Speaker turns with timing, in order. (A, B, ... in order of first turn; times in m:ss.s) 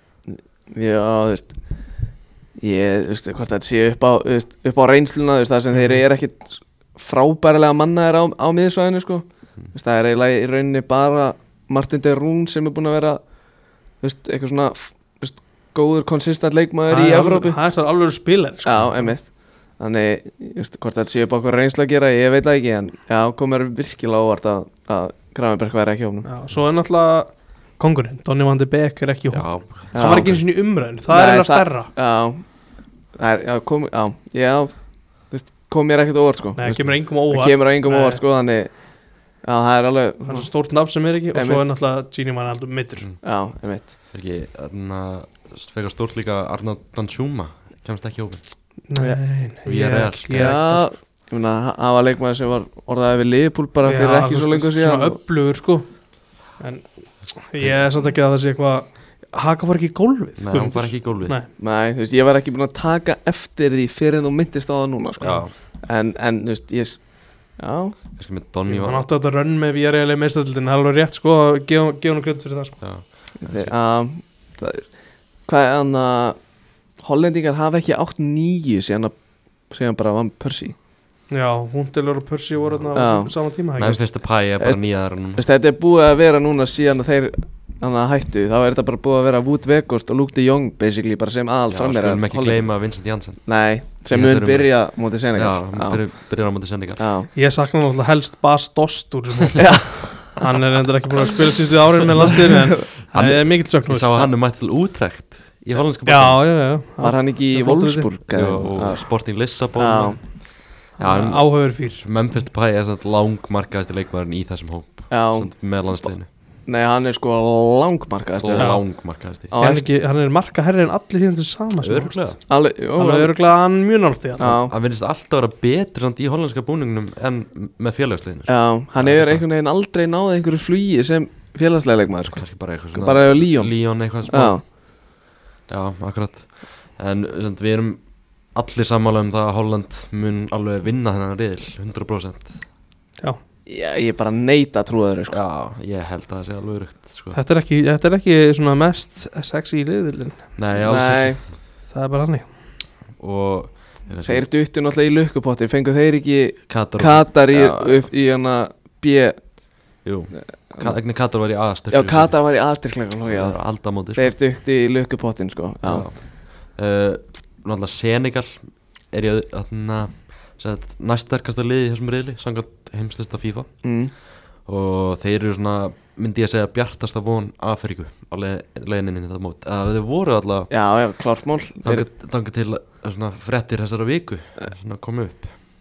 0:00.3-0:17.6 A
0:05.7-0:06.0 B
0:16.9-0:19.2 B
0:18.6-0:26.3 A
0:26.2-0:31.9 B
0:29.3-0:30.4 C
0:29.9-0:41.6 A
0:36.6-0:38.2 B
0:36.6-0:37.0 C
0:40.3-0:43.1 B
0:43.0-0:43.2 C
0:43.2-0:43.9 A
0:43.8-0:48.7 C
0:48.9-0:50.9 B
0:49.0-0:49.3 A
0:49.6-0:50.6 C
0:50.3-0:55.2 A
0:53.8-1:01.5 B
0:57.5-0:57.9 C
1:00.4-1:01.4 C
1:01.6-1:08.2 A
1:05.2-1:05.5 C
1:08.2-1:09.1 C
1:08.7-1:12.9 B
1:12.8-1:13.7 C
1:13.4-1:20.7 A
1:21.3-1:24.0 B
1:22.6-1:25.4 C
1:22.9-1:23.3 A
1:24.6-1:36.0 A
1:31.7-1:37.0 C
1:37.0-1:37.3 A
1:37.3-1:44.3 B
1:39.6-1:40.3 A
1:43.1-1:46.6 C
1:46.0-1:48.2 B
1:47.0-1:50.2 A
1:48.3-1:56.3 C
1:50.9-1:52.0 B
1:55.1-1:59.9 A
1:58.4-1:59.5 C
1:58.6-2:04.5 B
2:01.8-2:02.4 C
2:02.5-2:03.3 A
2:04.4-2:04.7 A
2:04.4-2:09.4 C
2:08.5-2:14.6 A
2:12.3-2:14.9 C
2:15.7-2:22.7 C
2:23.6-2:25.4 A
2:25.3-2:27.4 C
2:27.3-2:30.6 B
2:30.6-2:31.6 C
2:30.8-2:31.4 A
2:31.9-2:32.7 B
2:33.1-2:34.5 C
2:34.2-2:39.8 A
2:36.7-2:38.1 C
2:40.0-2:42.5 C
2:40.4-2:46.1 A
2:43.2-2:44.3 C
2:45.8-3:00.7 C
2:53.8-2:54.1 A
3:00.7-3:02.1 A
3:01.8-3:05.5 C